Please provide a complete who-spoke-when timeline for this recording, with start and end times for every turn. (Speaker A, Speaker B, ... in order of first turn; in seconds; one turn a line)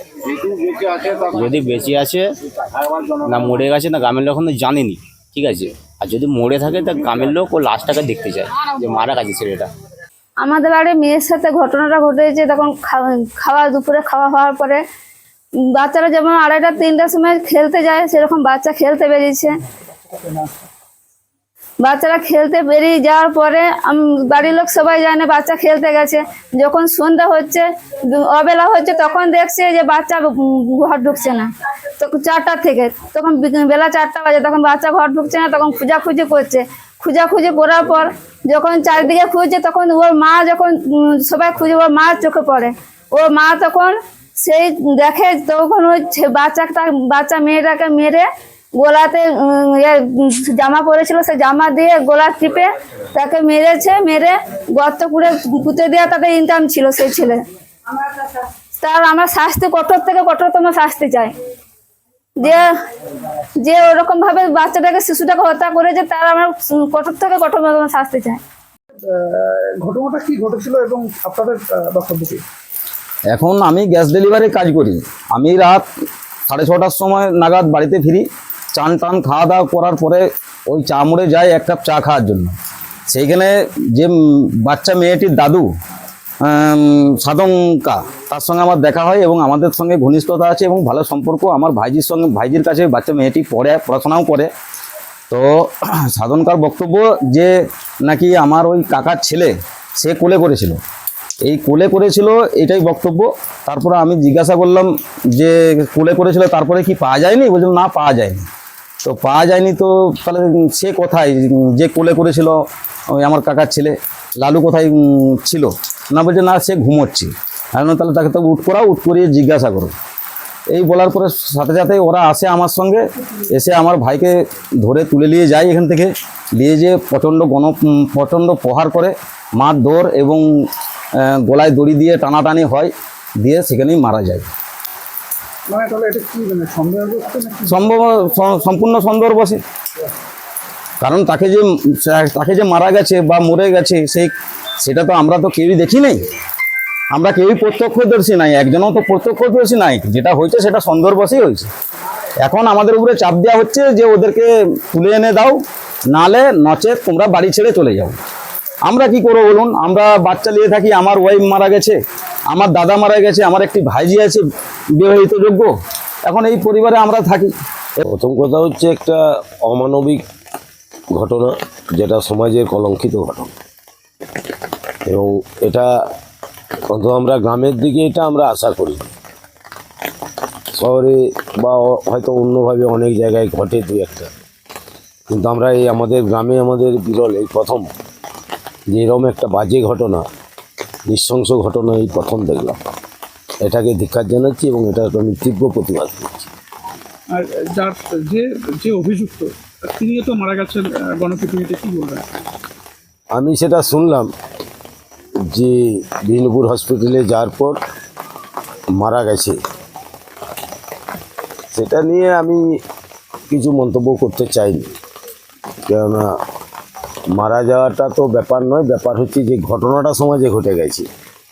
Speaker A: 0.5-2.2
Speaker A: 3.0-9.7
Speaker B: 10.4-14.8
Speaker B: 15.8-19.6
Speaker B: 21.8-31.5
Speaker B: 32.0-48.2
Speaker B: 48.8-57.4
Speaker B: 57.9-61.3
Speaker B: 62.4-62.7
Speaker B: 63.6-68.4
Speaker C: 69.1-72.4
Speaker D: 73.3-75.8
Speaker D: 76.5-78.2
Speaker D: 78.8-82.5
Speaker D: 83.1-85.7
Speaker D: 86.4-94.5
Speaker D: 95.3-97.5
Speaker D: 98.1-100.8
Speaker D: 101.4-108.4
Speaker D: 109.0-112.6
Speaker D: 113.2-119.9
Speaker D: 120.7-123.0
Speaker D: 123.5-130.4
Speaker D: 131.2-132.9
Speaker D: 133.4-134.5
Speaker C: 135.7-137.8
Speaker D: 137.7-139.6
Speaker D: 141.0-144.3
Speaker D: 144.8-146.2
Speaker D: 147.1-151.7
Speaker D: 152.4-155.6
Speaker D: 156.1-158.2
Speaker D: 158.9-162.0
Speaker D: 162.5-164.4
Speaker D: 165.0-165.7
Speaker D: 166.3-167.5
Speaker E: 168.0-170.2
Speaker E: 171.2-173.5
Speaker E: 175.1-175.9
Speaker E: 176.9-179.1
Speaker E: 180.8-184.3
Speaker E: 185.3-187.9
Speaker E: 188.9-190.2
Speaker E: 191.1-192.8
Speaker E: 193.6-196.5
Speaker C: 197.3-202.2
Speaker E: 203.3-204.3
Speaker E: 205.5-207.8
Speaker E: 209.0-209.6
Speaker E: 211.7-212.6
Speaker E: 213.5-214.9
Speaker E: 215.9-216.2
Speaker E: 217.4-221.1